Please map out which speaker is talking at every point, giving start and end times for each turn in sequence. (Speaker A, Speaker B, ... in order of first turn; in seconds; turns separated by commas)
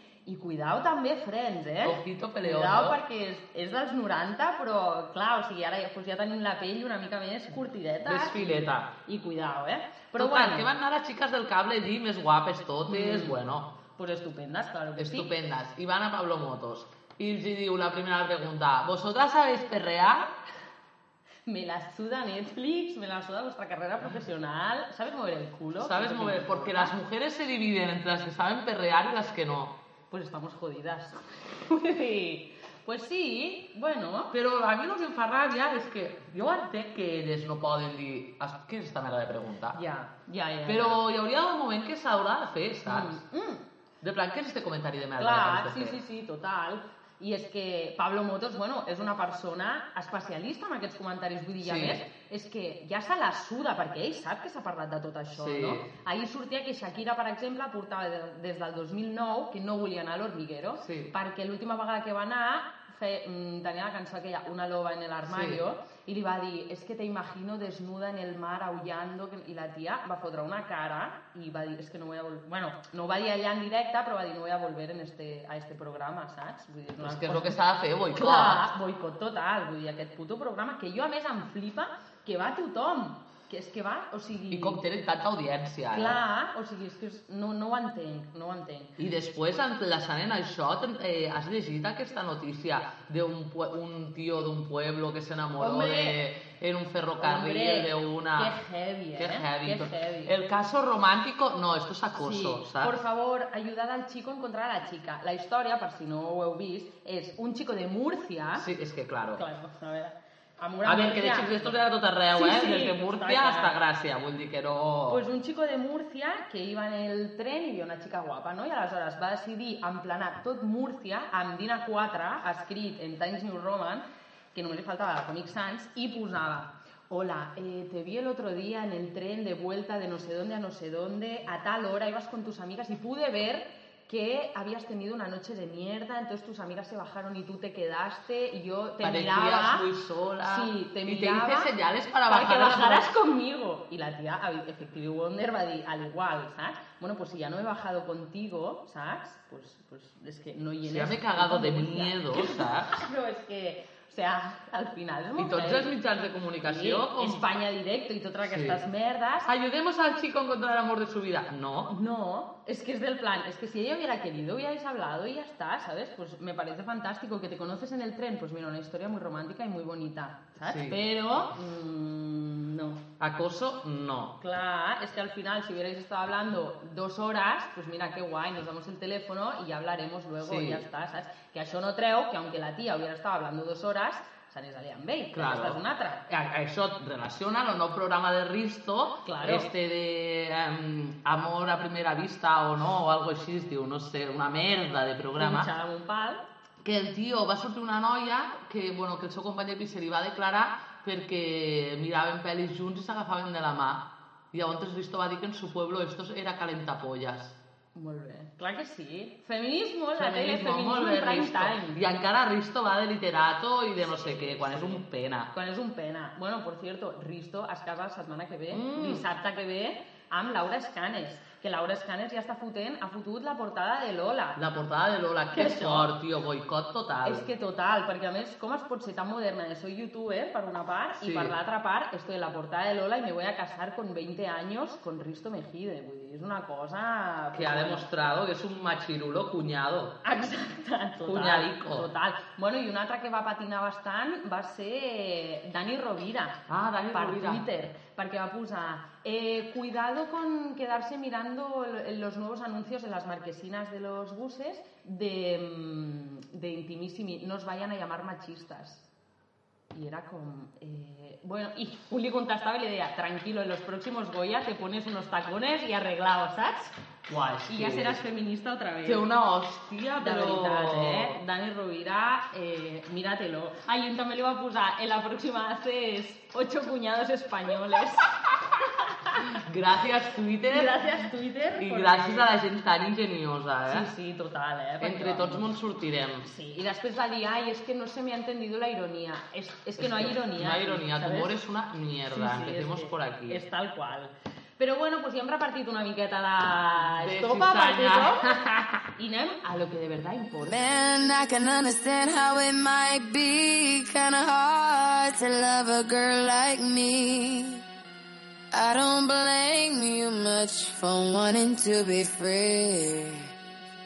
Speaker A: 0.2-10.7, Speaker B: 1.8-3.0, Speaker B: 8.0-8.9, Speaker B: 10.2-13.7, Speaker A: 12.9-13.4, Speaker A: 13.9-15.3, Speaker B: 15.0-20.3, Speaker A: 21.5-26.9, Speaker B: 25.8-29.8, Speaker A: 30.1-34.3, Speaker B: 34.3-39.8, Speaker A: 39.7-41.0, Speaker B: 40.6-43.2, Speaker A: 42.9-43.6, Speaker B: 44.0-46.0, Speaker A: 45.2-77.6, Speaker B: 51.6-52.0, Speaker B: 55.3-55.9, Speaker B: 60.8-61.1, Speaker B: 65.3-65.6, Speaker B: 77.0-78.6, Speaker A: 78.1-84.8, Speaker B: 84.5-86.2, Speaker A: 85.9-88.9, Speaker B: 89.0-98.5, Speaker A: 95.6-96.2, Speaker A: 97.2-100.3, Speaker B: 99.2-103.0, Speaker A: 102.2-108.7, Speaker B: 108.6-109.4, Speaker A: 109.3-111.7, Speaker B: 110.8-115.2, Speaker A: 112.3-113.8, Speaker A: 115.1-139.8, Speaker B: 139.0-143.1, Speaker A: 140.4-141.7, Speaker A: 142.3-155.9, Speaker B: 150.8-152.9, Speaker B: 155.4-157.4, Speaker A: 156.6-159.5, Speaker B: 158.4-158.8, Speaker B: 159.4-161.9, Speaker A: 161.9-173.0, Speaker B: 170.6-171.0, Speaker B: 173.2-174.3, Speaker A: 174.4-186.2, Speaker B: 180.4-180.8, Speaker B: 185.3-195.7, Speaker A: 189.2-189.7, Speaker A: 195.4-196.4, Speaker B: 196.8-207.6, Speaker A: 207.9-212.0, Speaker B: 210.1-215.5, Speaker A: 214.0-224.6, Speaker B: 218.7-219.2, Speaker B: 224.6-227.5, Speaker A: 225.5-226.1, Speaker A: 227.2-238.1, Speaker B: 231.2-231.5, Speaker B: 237.5-240.2, Speaker A: 240.2-246.6, Speaker B: 241.2-242.1, Speaker B: 246.7-247.6, Speaker A: 247.1-259.0, Speaker A: 259.9-266.9, Speaker B: 267.3-268.2, Speaker A: 267.7-269.3, Speaker B: 269.0-271.4, Speaker A: 270.2-278.3, Speaker B: 279.5-281.0, Speaker A: 280.7-282.5, Speaker B: 281.8-284.1, Speaker A: 283.9-285.6, Speaker B: 285.0-286.4, Speaker A: 286.4-291.5, Speaker B: 290.0-293.6, Speaker A: 292.3-298.5, Speaker B: 297.0-299.0, Speaker A: 299.2-300.8, Speaker C: 300.7-307.8, Speaker C: 308.7-313.5